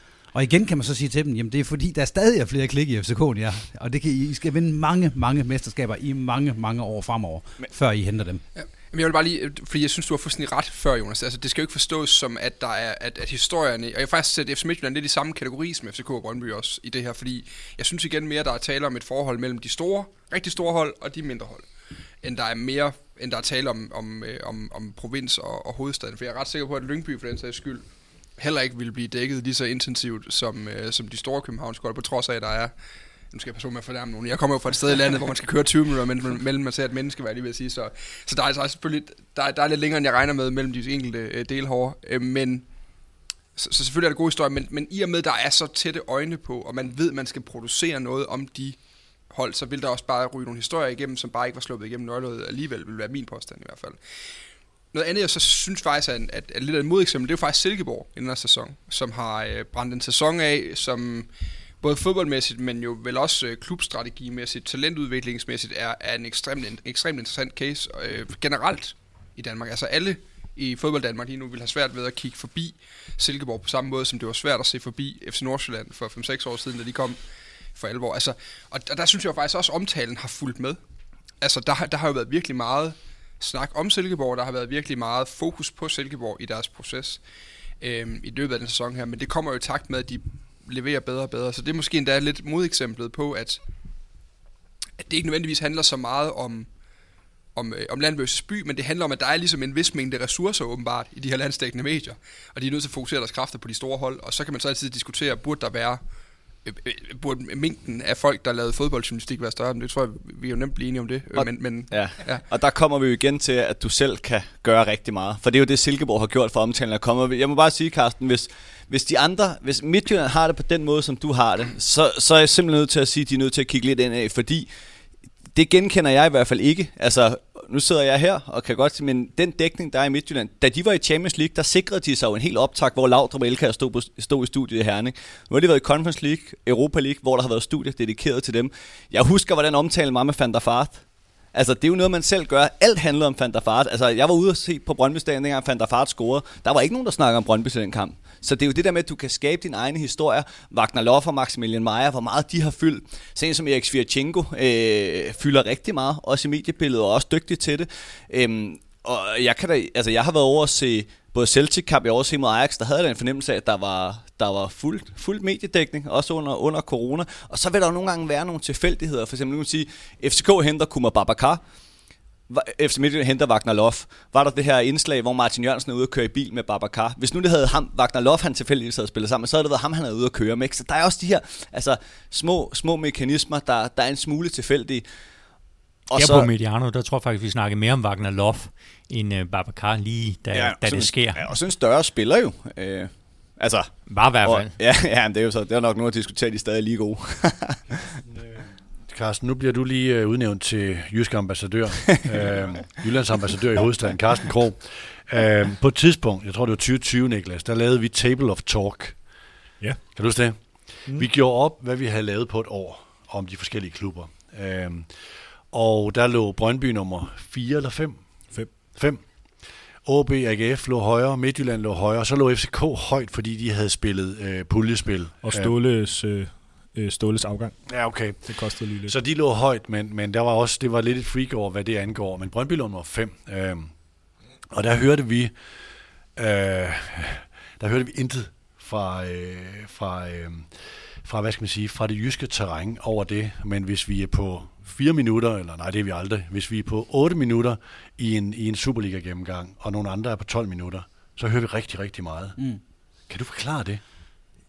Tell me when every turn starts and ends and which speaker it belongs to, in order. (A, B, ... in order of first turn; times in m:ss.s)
0:00.3-0:08.4 A
0:08.5-0:21.7 B
0:22.2-0:27.8 B
0:28.4-0:32.7 B
0:33.3-0:42.7 B
0:43.6-0:48.8 B
0:49.3-0:54.0 B
0:54.9-1:01.3 B
1:01.8-1:17.2 B
1:17.8-1:20.8 B
1:21.4-1:27.2 B
1:27.8-1:33.6 B
1:35.0-1:36.7 B
1:37.5-1:46.0 B
1:46.6-1:52.4 B
1:51.4-2:04.7 C
2:05.5-2:51.6 C
2:52.5-3:05.0 C
3:06.1-3:06.5 C
3:06.1-3:11.4 D
3:10.5-3:18.0 C
3:14.1-3:14.8 D
3:18.3-3:29.2 E
3:30.2-3:35.1 E
3:35.7-3:38.3 E
3:38.9-3:39.2 E
3:40.0-3:45.7 E
3:45.4-3:47.7 F
3:47.9-3:53.9 E
3:48.5-3:49.2 F
3:54.7-3:55.5 E
3:56.4-4:00.7 E
4:01.2-4:12.6 E
4:13.3-4:14.0 E